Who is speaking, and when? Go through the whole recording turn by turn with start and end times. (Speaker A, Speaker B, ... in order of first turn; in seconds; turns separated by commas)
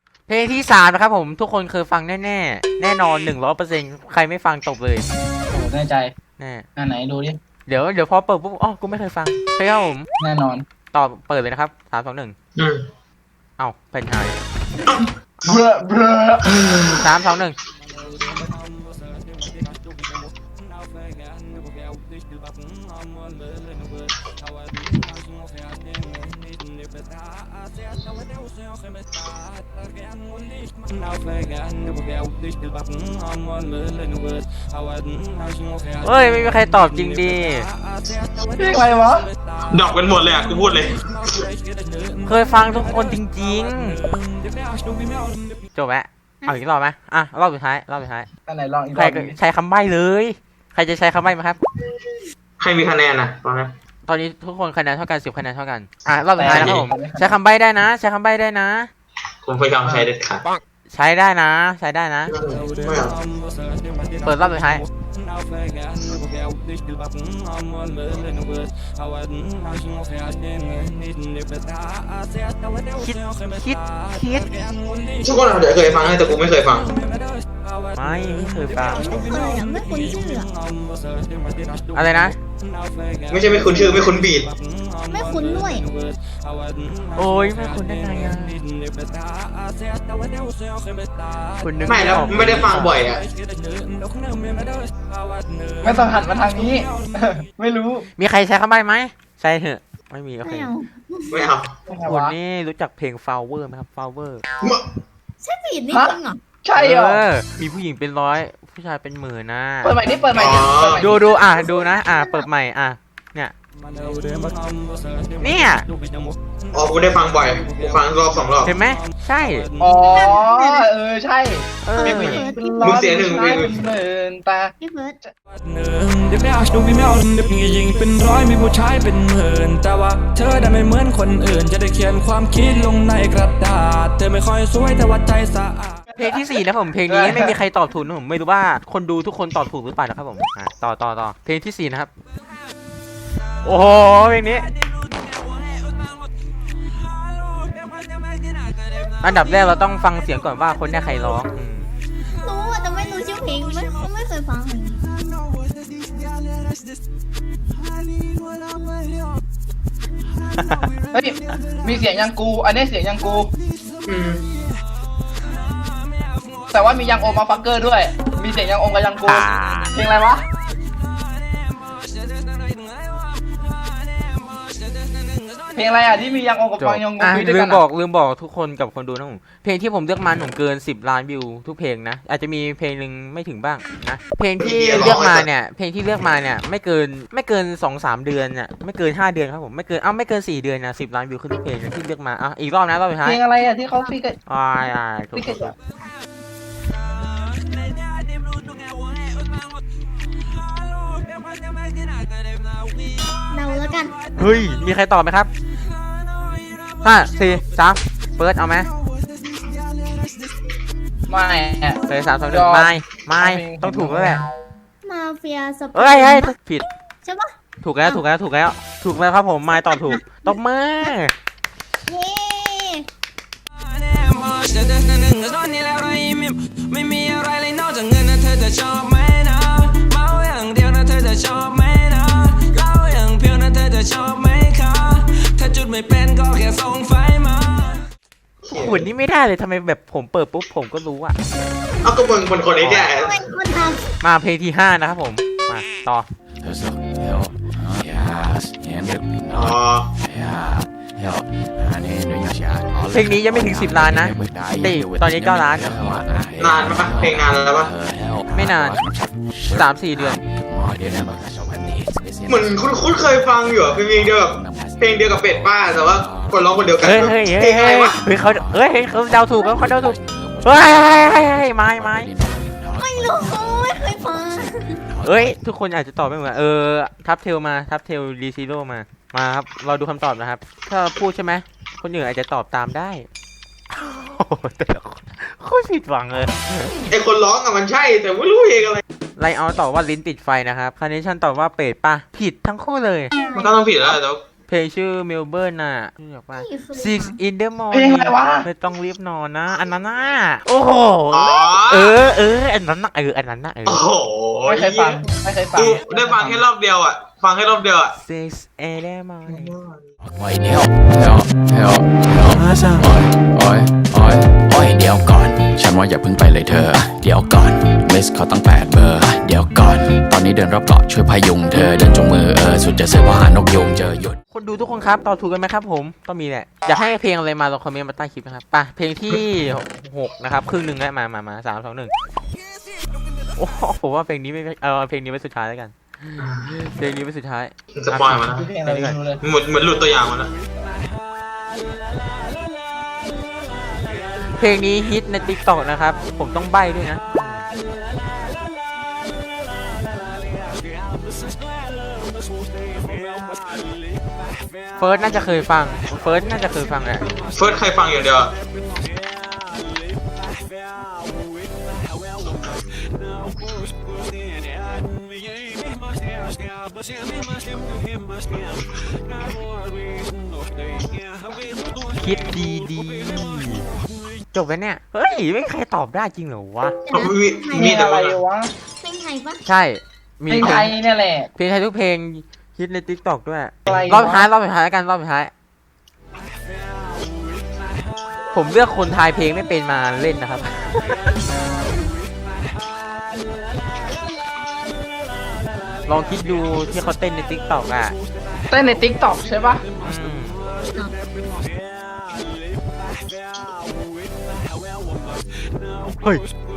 Speaker A: 0.3-5.1, Speaker B: 5.5-6.1, Speaker A: 6.4-6.7, Speaker B: 6.8-7.4, Speaker A: 7.7-10.1, Speaker B: 10.2-10.7, Speaker A: 10.9-12.3, Speaker C: 12.6-12.8, Speaker A: 13.6-14.4, Speaker C: 14.9-15.6, Speaker B: 15.5-16.6, Speaker C: 16.5-17.1, Speaker A: 16.9-17.6, Speaker D: 33.0-34.5, Speaker A: 36.0-37.7, Speaker B: 38.6-39.3, Speaker C: 39.7-41.5, Speaker A: 42.2-44.0, Speaker D: 44.7-45.4, Speaker A: 45.8-48.3, Speaker B: 48.5-49.4, Speaker A: 48.9-51.6, Speaker C: 52.6-53.7, Speaker A: 54.1-58.9, Speaker B: 56.4-57.4, Speaker C: 56.5-56.8, Speaker C: 59.5-60.4, Speaker A: 60.9-62.3, Speaker C: 62.3-63.2, Speaker A: 64.2-64.8, Speaker D: 66.8-68.7, Speaker D: 69.6-71.9, Speaker A: 73.0-74.5, Speaker C: 75.2-76.9, Speaker A: 78.0-79.3, Speaker E: 78.9-80.5, Speaker D: 79.8-81.9, Speaker A: 81.9-82.3, Speaker C: 83.3-84.5, Speaker E: 85.1-85.9, Speaker A: 87.2-88.6, Speaker D: 88.8-91.1, Speaker A: 91.6-93.0, Speaker C: 91.8-93.2, Speaker D: 93.4-94.9, Speaker B: 95.8-98.1, Speaker A: 98.2-100.7, Speaker E: 100.4-101.5, Speaker C: 101.3-101.7, Speaker B: 101.9-102.3, Speaker A: 102.0-104.4, Speaker E: 105.4-106.4, Speaker B: 105.9-107.2, Speaker A: 106.8-110.0, Speaker B: 109.8-111.3, Speaker C: 110.3-111.1, Speaker A: 111.0-113.5, Speaker E: 111.3-112.5, Speaker D: 114.1-114.8, Speaker A: 115.4-115.9, Speaker C: 116.7-118.8, Speaker A: 118.6-119.7, Speaker B: 119.8-124.7, Speaker E: 120.1-120.9, Speaker A: 121.8-122.4, Speaker E: 121.9-123.2, Speaker C: 122.8-123.7, Speaker E: 124.8-125.3, Speaker D: 126.2-135.7, Speaker A: 136.2-142.1, Speaker B: 137.1-137.5, Speaker A: 143.6-144.7, Speaker A: 149.2-151.9, Speaker E: 152.4-155.0, Speaker A: 160.6-160.8, Speaker B: 161.1-163.5, Speaker C: 164.1-164.4, Speaker B: 166.7-170.4, Speaker A: 169.2-169.9, Speaker D: 172.6-173.0, Speaker B: 175.8-177.8, Speaker A: 176.8-193.4, Speaker C: 184.6-185.5, Speaker B: 193.2-194.4, Speaker A: 194.5-195.8, Speaker B: 195.3-195.7, Speaker E: 203.5-204.2, Speaker A: 204.4-205.5, Speaker A: 207.0-208.9, Speaker B: 211.3-214.4, Speaker A: 212.1-214.4, Speaker E: 215.0-217.5, Speaker A: 215.9-216.9, Speaker A: 217.8-221.3, Speaker E: 219.9-220.4, Speaker E: 222.1-223.1, Speaker D: 224.2-238.0, Speaker C: 238.6-239.1, Speaker A: 238.7-241.4, Speaker C: 242.0-243.6, Speaker A: 242.8-243.1, Speaker E: 243.2-244.1, Speaker A: 244.2-246.3, Speaker F: 246.6-267.6, Speaker C: 249.5-250.1, Speaker A: 253.1-256.2, Speaker C: 256.6-257.9, Speaker A: 258.5-259.0, Speaker A: 259.7-260.4, Speaker C: 262.5-268.1, Speaker A: 267.0-272.3, Speaker F: 268.2-275.6, Speaker E: 273.0-275.0, Speaker A: 275.2-283.3, Speaker A: 283.9-287.1, Speaker C: 287.1-289.0, Speaker A: 289.4-293.4, Speaker E: 293.3-293.7, Speaker C: 293.6-294.4, Speaker A: 294.7-304.1, Speaker E: 296.5-297.4, Speaker B: 297.9-298.7, Speaker C: 301.3-302.2, Speaker C: 303.9-308.1, Speaker B: 304.7-306.6, Speaker A: 308.2-309.7, Speaker C: 309.5-310.1, Speaker F: 310.2-324.4, Speaker A: 324.5-332.1, Speaker A: 333.6-339.2, Speaker C: 336.4-336.7, Speaker C: 337.9-338.7, Speaker B: 338.4-339.4, Speaker C: 339.4-340.5, Speaker A: 344.4-347.6, Speaker A: 355.0-357.3, Speaker C: 357.4-358.5, Speaker A: 372.1-373.9, Speaker A: 374.5-377.0, Speaker E: 377.1-377.9, Speaker C: 377.1-378.4, Speaker B: 377.8-378.7, Speaker E: 379.0-379.6, Speaker A: 379.6-380.9, Speaker B: 380.5-381.5, Speaker A: 381.6-385.5, Speaker B: 383.9-384.5, Speaker A: 388.5-391.3, Speaker A: 396.1-398.1, Speaker B: 398.7-399.8, Speaker A: 400.0-400.6